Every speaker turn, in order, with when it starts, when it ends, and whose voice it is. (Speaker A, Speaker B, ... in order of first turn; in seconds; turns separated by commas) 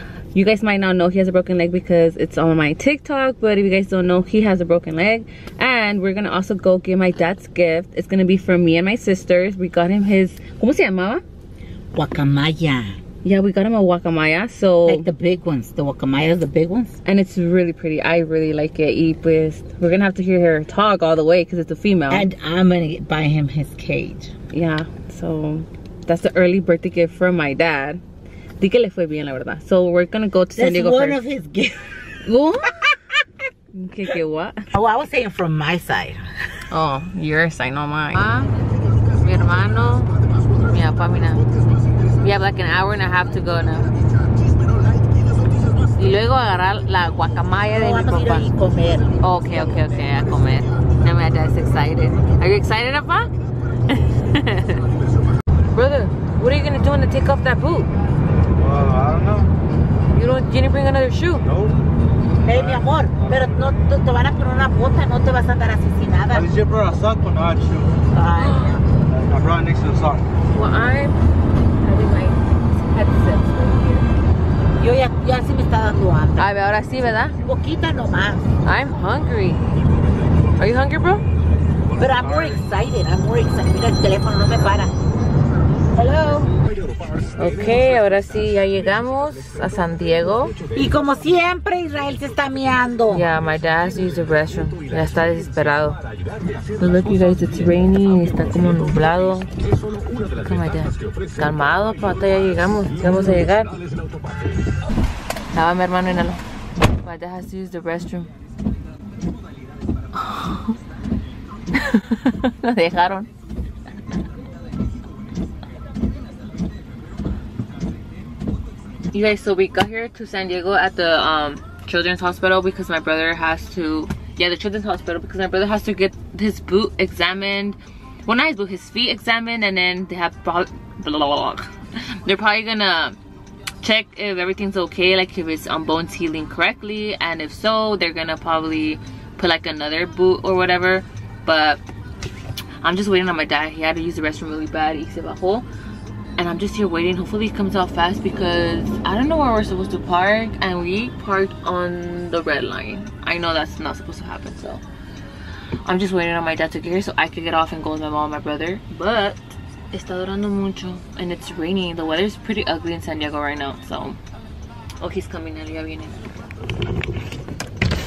Speaker A: 0.3-11.2, Speaker B: 11.9-13.0, Speaker A: 13.2-15.1, Speaker B: 14.8-17.0, Speaker A: 17.0-22.3, Speaker B: 22.1-24.3, Speaker A: 24.5-28.0, Speaker A: 28.6-31.2, Speaker B: 30.6-32.1, Speaker A: 32.2-32.9, Speaker A: 33.7-34.6, Speaker B: 34.7-36.3, Speaker A: 36.7-38.5, Speaker A: 39.1-41.5, Speaker A: 42.2-43.9, Speaker A: 46.0-48.5, Speaker B: 47.7-50.2, Speaker A: 49.2-53.3, Speaker A: 53.9-54.8, Speaker A: 55.7-57.9, Speaker C: 58.6-59.5, Speaker A: 60.1-61.4, Speaker C: 61.4-61.8, Speaker B: 62.4-66.5, Speaker C: 62.4-63.7, Speaker C: 66.3-68.0, Speaker B: 68.1-68.8, Speaker A: 68.4-68.8, Speaker C: 69.0-70.3, Speaker A: 70.5-71.2, Speaker A: 71.8-74.1, Speaker B: 74.8-76.6, Speaker A: 76.4-77.3, Speaker B: 77.3-78.4, Speaker A: 78.6-79.7, Speaker A: 80.6-81.2, Speaker B: 82.0-84.9, Speaker C: 82.1-82.5, Speaker B: 85.9-86.5, Speaker A: 87.4-90.5, Speaker B: 90.7-93.2, Speaker A: 93.1-96.0, Speaker A: 96.8-99.5, Speaker A: 100.4-103.8, Speaker A: 105.5-106.4, Speaker A: 107.0-108.3, Speaker A: 110.1-110.7, Speaker A: 111.8-113.3, Speaker A: 119.1-133.2, Speaker A: 133.8-141.8, Speaker A: 142.8-145.6, Speaker A: 146.4-154.8, Speaker A: 155.8-164.2, Speaker A: 165.0-166.3